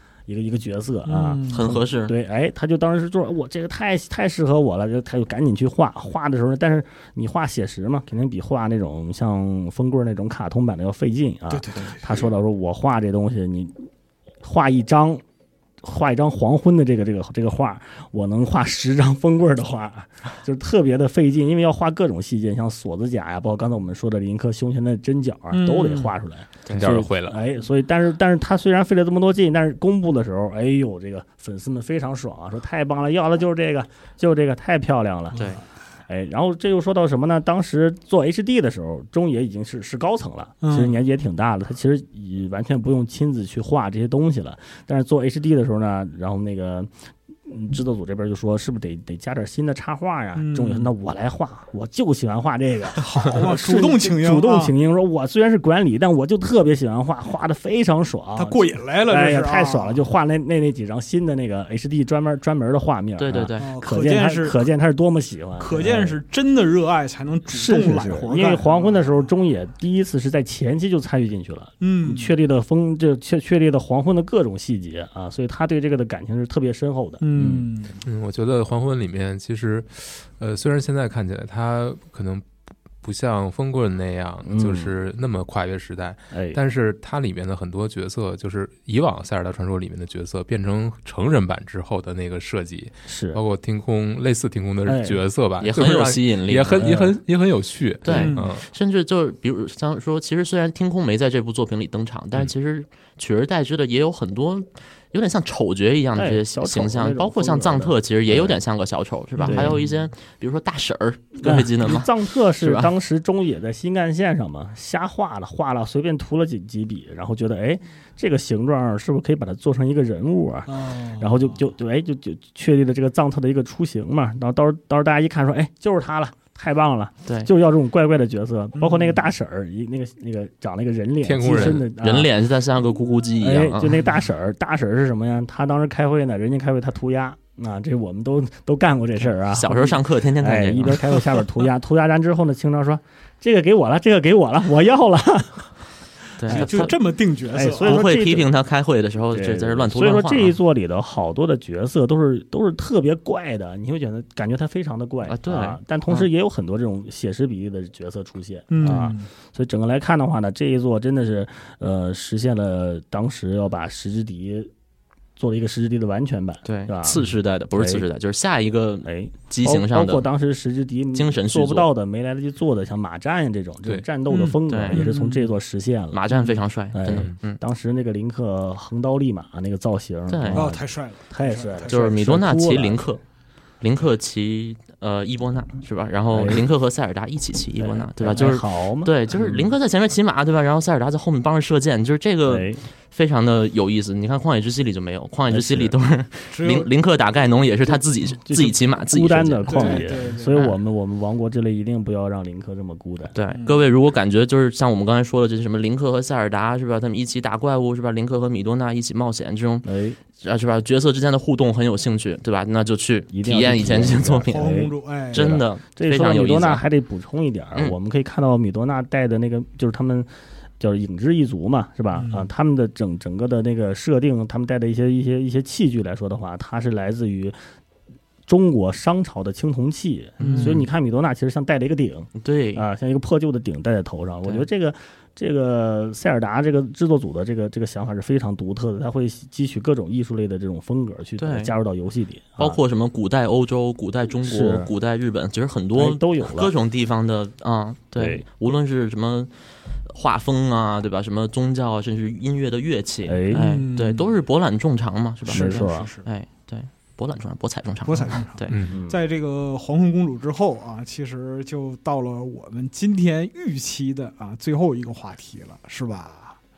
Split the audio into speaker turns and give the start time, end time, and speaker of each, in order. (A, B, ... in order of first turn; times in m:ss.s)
0:00.3-0:13.9 A
0:01.0-0:01.8 B
0:01.5-0:02.1 C
0:11.5-0:12.2 B
0:14.4-0:15.2 A
0:15.8-0:35.4 A
0:25.5-0:26.1 B
0:26.7-0:27.4 D
0:35.3-0:35.6 B
0:36.1-0:46.9 A
0:40.6-0:41.0 B
0:47.4-1:06.2 A
0:50.3-0:50.9 B
0:53.0-0:54.7 B
0:58.4-1:00.0 B
1:03.2-1:03.7 C
1:03.6-1:04.6 B
1:05.6-1:09.3 B
1:07.5-1:17.7 A
1:11.8-1:12.3 B
1:17.2-1:18.0 B
1:18.0-1:22.5 D
1:23.0-1:38.6 D
1:24.4-1:24.9 A
1:26.3-1:26.6 A
1:33.1-1:33.4 A
1:34.8-1:35.2 A
1:35.6-1:36.9 C
1:36.8-1:37.2 A
1:38.0-1:52.9 C
1:38.1-1:38.5 B
1:46.1-1:48.6 A
1:49.4-1:49.8 B
1:49.4-1:49.8 A
1:51.4-2:12.3 A
2:00.7-2:01.6 B
2:08.7-2:09.2 B
2:11.2-2:11.8 D
2:11.5-2:14.0 C
2:13.4-2:25.7 A
2:19.5-2:21.2 C
2:26.4-2:26.9 C
2:26.4-2:28.0 B
2:26.5-2:26.9 A
2:27.5-2:28.5 A
2:27.8-2:30.5 C
2:29.3-2:44.7 A
2:35.2-2:36.2 C
2:38.7-2:39.3 B
2:45.4-2:47.2 A
2:46.6-2:50.2 C
2:47.7-2:48.0 A
2:49.0-2:56.3 A
2:51.1-2:51.9 C
2:54.3-2:55.6 B
2:54.7-2:55.0 C
2:56.1-2:57.6 C
2:56.3-2:56.6 B
2:56.9-3:03.1 A
3:00.3-3:00.6 C
3:00.5-3:02.2 B
3:01.9-3:03.2 C
3:03.8-3:20.8 C
3:06.3-3:06.6 A
3:07.8-3:09.7 A
3:12.5-3:12.8 A
3:15.5-3:15.9 A
3:16.5-3:16.9 B
3:17.8-3:23.3 A
3:19.7-3:20.6 B
3:23.3-3:29.9 C
3:23.5-3:23.8 B
3:29.8-3:30.2 A
3:30.4-3:34.7 C
3:33.3-3:40.3 A
3:34.5-3:35.5 B
3:35.3-3:36.8 C
3:40.8-3:47.6 A
3:42.1-3:42.5 B
3:48.4-4:02.8 A
3:50.4-3:50.8 C
3:50.4-3:50.9 B
3:52.4-3:52.8 C
4:01.4-4:01.7 C
4:02.6-4:09.5 C
4:04.4-4:04.9 A
4:05.9-4:06.7 A
4:08.2-4:08.4 A
4:10.0-4:18.8 C
4:13.2-4:13.6 A
4:13.5-4:14.3 B
4:15.5-4:16.1 A
4:15.5-4:16.3 B
4:18.0-4:26.6 B
4:18.7-4:19.0 D
4:18.9-4:19.2 A